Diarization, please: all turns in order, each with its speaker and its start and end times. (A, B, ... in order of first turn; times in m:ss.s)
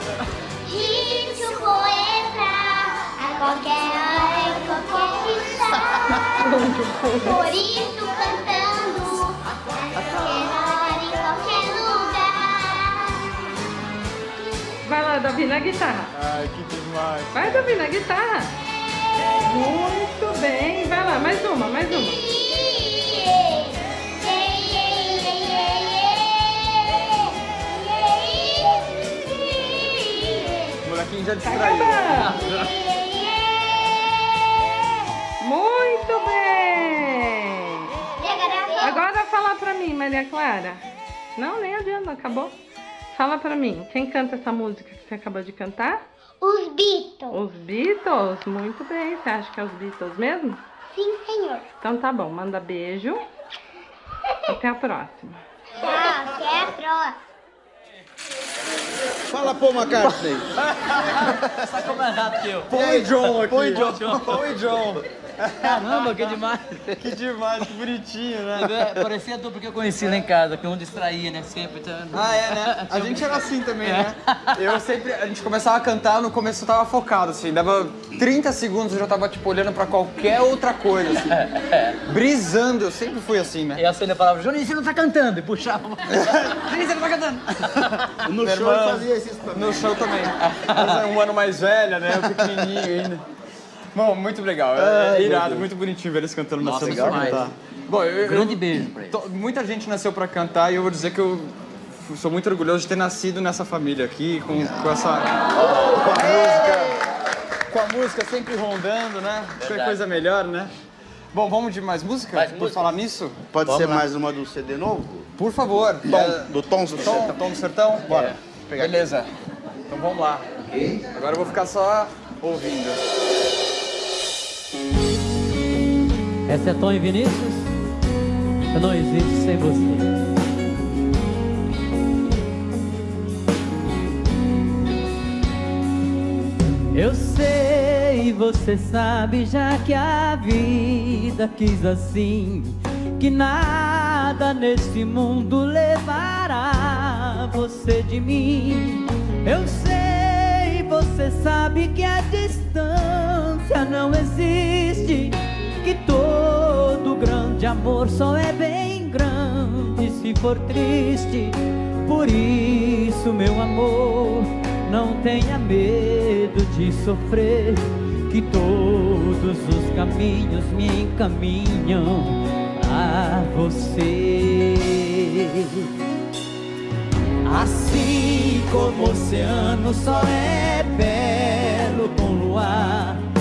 0:00.6-0:06.5 A
0:06.4-0:07.4 B
0:07.2-0:13.2 A
0:14.9-0:16.1 B
0:16.1-0:17.7 C
0:17.3-0:18.5 B
0:19.5-0:22.2 B
0:22.6-0:30.8 A
0:30.8-0:32.7 C
0:31.4-0:32.4 B
0:32.1-0:33.9 A
0:35.4-0:37.9 B
0:38.2-0:39.0 A
0:38.8-0:40.8 B
0:41.4-0:42.5 B
0:43.1-0:46.0 B
0:46.4-0:47.4 A
0:47.3-0:50.6 B
0:50.9-0:51.7 A
0:51.8-0:53.2 B
0:54.5-0:55.4 B
0:55.8-0:57.2 A
0:59.3-1:00.5 D
0:59.9-1:00.5 E
1:00.6-1:01.1 C
1:01.0-1:02.7 E
1:02.7-1:04.2 D
1:02.7-1:06.3 C
1:03.7-1:04.4 E
1:05.6-1:07.1 E
1:07.0-1:08.9 C
1:08.6-1:14.6 E
1:12.1-1:21.5 C
1:21.3-1:22.0 E
1:22.1-1:23.8 C
1:23.8-1:26.3 E
1:26.1-1:33.2 C
1:28.2-1:30.3 D
1:30.4-1:31.0 E
1:34.0-1:41.5 C
1:34.8-1:35.7 D
1:36.6-1:37.5 E
1:36.8-1:37.5 D
1:38.2-1:39.2 E
1:42.0-1:47.0 C
1:45.6-1:47.0 D
1:47.7-1:50.7 C
1:49.6-1:50.0 E
1:51.3-1:53.4 C
1:52.3-1:52.8 E
1:53.5-1:55.3 D
1:53.6-1:54.0 E
1:55.4-1:59.3 C
1:56.0-1:59.1 D
1:59.9-2:00.4 C
2:00.6-2:01.0 E
2:01.1-2:03.0 C
2:06.5-2:07.7 E
2:08.7-2:10.1 E
2:16.9-2:55.7 E
2:57.5-3:03.2 E